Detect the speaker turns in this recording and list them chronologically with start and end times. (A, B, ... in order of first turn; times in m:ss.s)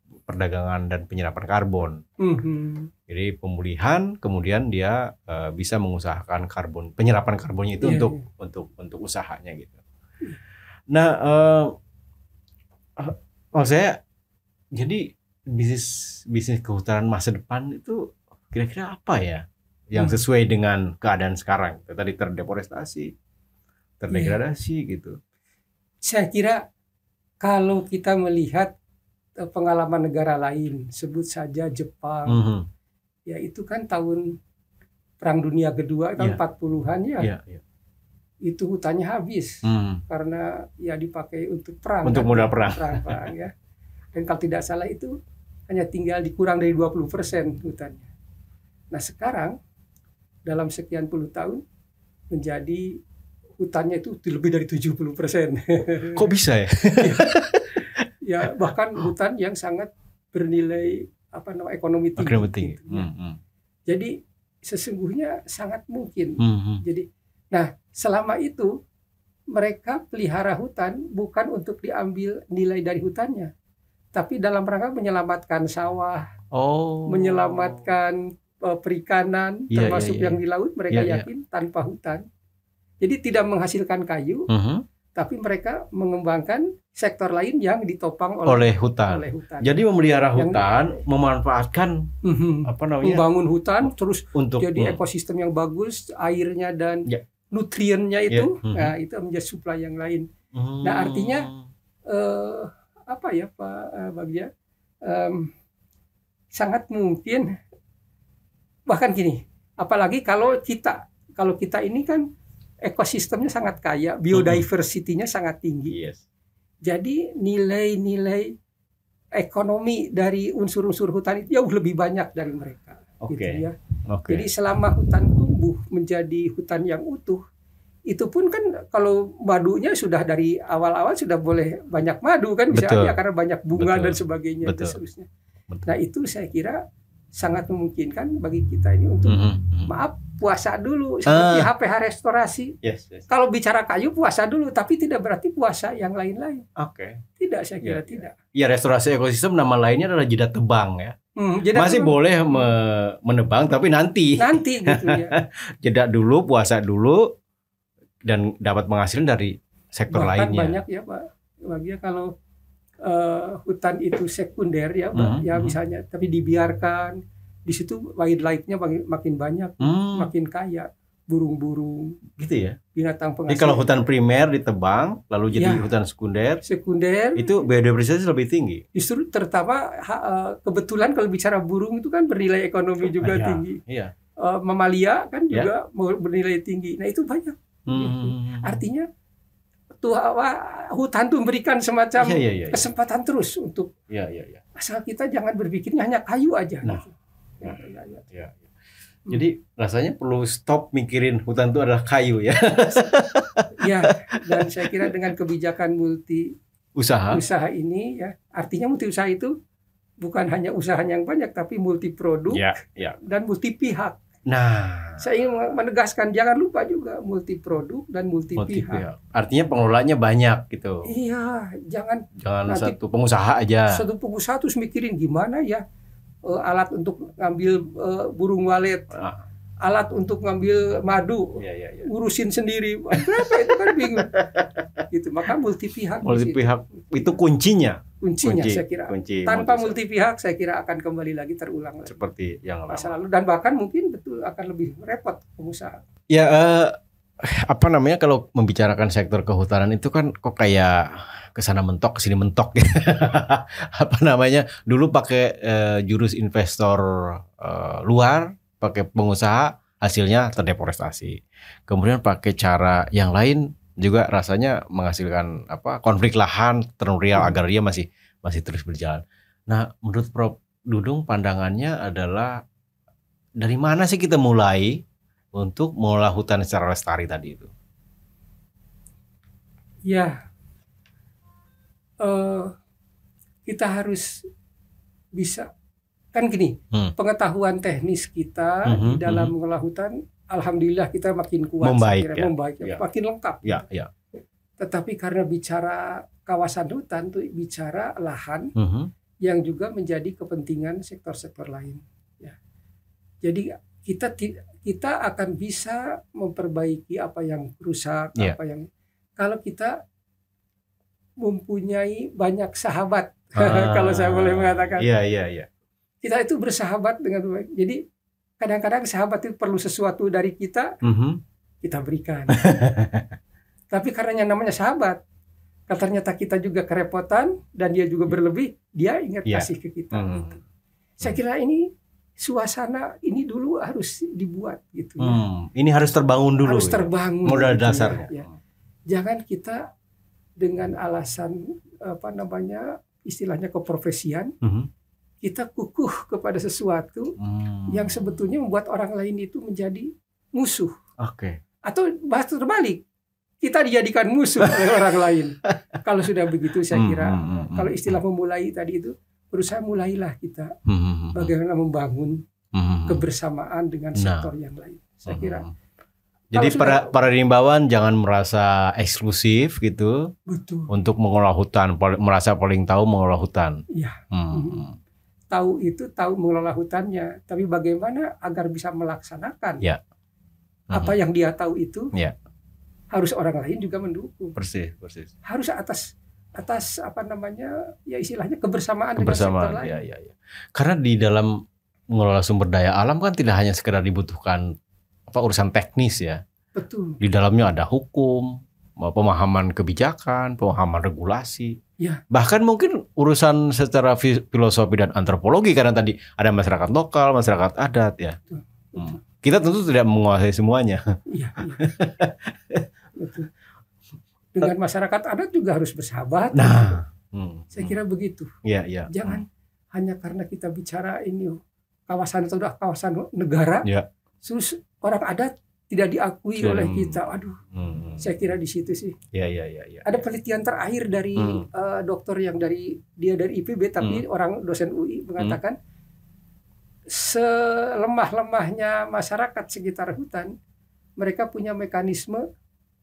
0:00.3-0:02.0 A
0:02.2-0:02.9 B
0:03.1-0:09.8 A
0:07.8-0:08.2 B
0:10.9-0:11.8 A
0:13.0-0:14.0 A
0:14.7-0:23.1 A
0:20.0-0:20.2 B
0:24.0-0:25.2 A
0:24.1-0:24.4 B
0:26.0-0:26.6 B
0:27.4-0:28.7 B
0:29.4-0:32.4 B
0:32.3-0:32.7 A
0:33.3-0:34.4 B
0:35.2-0:37.3 B
0:37.2-0:37.6 A
0:38.4-0:43.5 B
0:39.6-0:40.0 A
0:42.0-0:43.3 A
0:44.2-0:45.2 B
0:45.7-0:48.1 B
0:48.9-0:49.6 B
0:50.5-0:51.6 B
0:52.3-0:53.0 B
0:53.6-0:56.2 B
0:56.1-0:58.1 A
0:57.0-0:57.3 B
0:58.2-1:03.1 B
1:02.2-1:03.4 A
1:04.6-1:08.7 B
1:06.4-1:06.8 A
1:09.5-1:13.5 B
1:14.1-1:16.2 B
1:16.5-1:17.8 A
1:17.1-1:22.2 B
1:19.7-1:20.4 A
1:20.9-1:21.3 A
1:23.0-1:24.5 B
1:24.5-1:24.8 A
1:25.2-1:29.8 B
1:28.5-1:32.1 A
1:30.4-1:30.7 B
1:32.2-1:40.3 B
1:32.7-1:33.2 A
1:33.8-1:35.0 A
1:38.3-1:38.9 A
1:40.5-1:41.6 A
1:40.8-1:41.5 B
1:42.1-1:44.5 B
1:45.0-1:45.5 B
1:46.5-1:47.5 B
1:48.9-1:52.2 B
1:52.9-1:56.0 B
1:54.3-1:54.6 A
1:55.9-1:56.2 A
1:56.8-1:58.5 B
1:59.4-2:03.8 B
2:03.2-2:04.5 A
2:04.3-2:07.4 B
2:08.1-2:15.3 B
2:12.7-2:13.1 A
2:13.8-2:15.0 A
2:15.8-2:16.8 B
2:17.4-2:22.8 B
2:19.2-2:19.9 A
2:21.3-2:21.7 A
2:22.8-2:23.3 A
2:23.3-2:26.6 B
2:26.8-2:27.2 A
2:27.4-2:28.4 B
2:27.8-2:31.2 A
2:31.4-2:32.7 B
2:31.7-2:37.3 A
2:34.4-2:35.3 B
2:38.3-2:40.8 A
2:40.1-2:42.3 B
2:43.1-2:52.2 B
2:45.1-2:45.8 A
2:49.8-2:50.3 A
2:52.4-2:52.8 A
2:53.0-2:53.9 B
2:53.5-2:56.6 A
2:55.6-2:55.9 B
2:56.6-2:57.5 B
2:57.4-2:58.8 A
2:59.0-3:03.8 B
3:03.2-3:04.1 A
3:04.4-3:09.1 B
3:07.9-3:08.8 A
3:10.0-3:13.9 B
3:12.2-3:12.8 A
3:14.1-3:14.6 A
3:14.8-3:18.2 B
3:18.3-3:18.6 A
3:19.3-3:25.1 A
3:23.8-3:26.6 B
3:27.0-3:27.4 A
3:27.3-3:29.5 B
3:30.2-3:32.7 B
3:32.5-3:33.2 A
3:33.2-3:34.2 B
3:34.5-3:35.3 A
3:35.2-3:39.0 B
3:38.6-3:41.1 A
3:41.0-3:43.0 B
3:42.4-3:44.0 A
3:43.9-3:45.8 B
3:46.5-3:49.2 B
3:49.1-3:49.4 A
3:49.8-3:54.3 B
3:51.6-3:52.1 A
3:53.1-3:55.0 A
3:55.1-3:57.4 B
3:56.2-4:00.0 A
3:58.2-4:02.2 B
4:02.1-4:03.2 A
4:02.9-4:06.0 B
4:06.3-4:32.6 A
4:33.6-4:35.0 A
4:35.5-4:37.7 A
4:40.1-4:40.4 B
4:42.2-4:42.7 B
4:43.7-4:44.5 B
4:45.4-4:45.7 B
4:46.3-4:53.8 B
4:48.9-4:49.5 A
4:51.8-4:53.0 A
4:53.6-4:54.1 A
4:54.8-4:58.7 B
4:58.8-4:59.1 A
4:59.4-5:02.6 B
5:03.4-5:08.9 B
5:09.4-5:10.0 B
5:11.4-5:15.1 B
5:13.6-5:15.7 A
5:16.2-5:18.0 B
5:18.6-5:20.9 B
5:21.0-5:21.4 A
5:21.8-5:22.6 B
5:22.5-5:23.3 A
5:23.9-5:25.2 B
5:25.9-5:30.6 B
5:29.5-5:30.6 A
5:31.2-5:31.9 B
5:32.4-5:35.4 B
5:35.2-5:38.5 A
5:36.6-5:38.5 B
5:39.1-5:39.8 B
5:40.6-5:44.5 B
5:44.6-5:44.9 A
5:45.4-5:47.4 B
5:47.4-5:48.5 A
5:47.9-5:50.9 B
5:51.2-5:51.6 A
5:51.9-5:53.0 B
5:53.6-6:00.7 B
5:54.6-5:55.7 A
5:56.9-5:58.2 A
6:00.9-6:01.5 A
6:01.3-6:02.4 B
6:02.8-6:03.2 A
6:03.1-6:05.6 B
6:04.2-6:04.5 A
6:05.3-6:05.7 A
6:06.5-6:10.3 A
6:06.6-6:07.2 B
6:10.5-6:10.9 B
6:10.9-6:13.8 A
6:13.9-6:14.8 B
6:14.3-6:15.0 A
6:15.5-6:19.8 B
6:20.9-6:22.1 B
6:23.1-6:24.6 B
6:24.6-6:25.3 A
6:25.5-6:26.0 B
6:26.6-6:29.9 B
6:29.2-6:34.7 A
6:35.3-6:36.4 A
6:36.8-6:37.2 B
6:37.2-6:41.8 A
6:42.3-6:48.4 A
6:48.5-6:49.2 B
6:49.0-6:51.0 A
6:51.3-6:51.9 B
6:51.8-6:52.9 A
6:53.2-6:53.5 B
6:54.6-6:57.0 B
6:56.5-6:58.0 A
6:57.7-6:58.5 B
6:58.6-6:59.4 A
6:59.1-7:01.6 B
7:02.1-7:03.9 B
7:04.4-7:07.6 B
7:06.6-7:07.2 A
7:07.7-7:08.3 A
7:08.2-7:09.2 B
7:09.3-7:10.2 A
7:10.0-7:15.8 B
7:11.4-7:11.7 A
7:17.1-7:20.5 B
7:21.2-7:22.4 B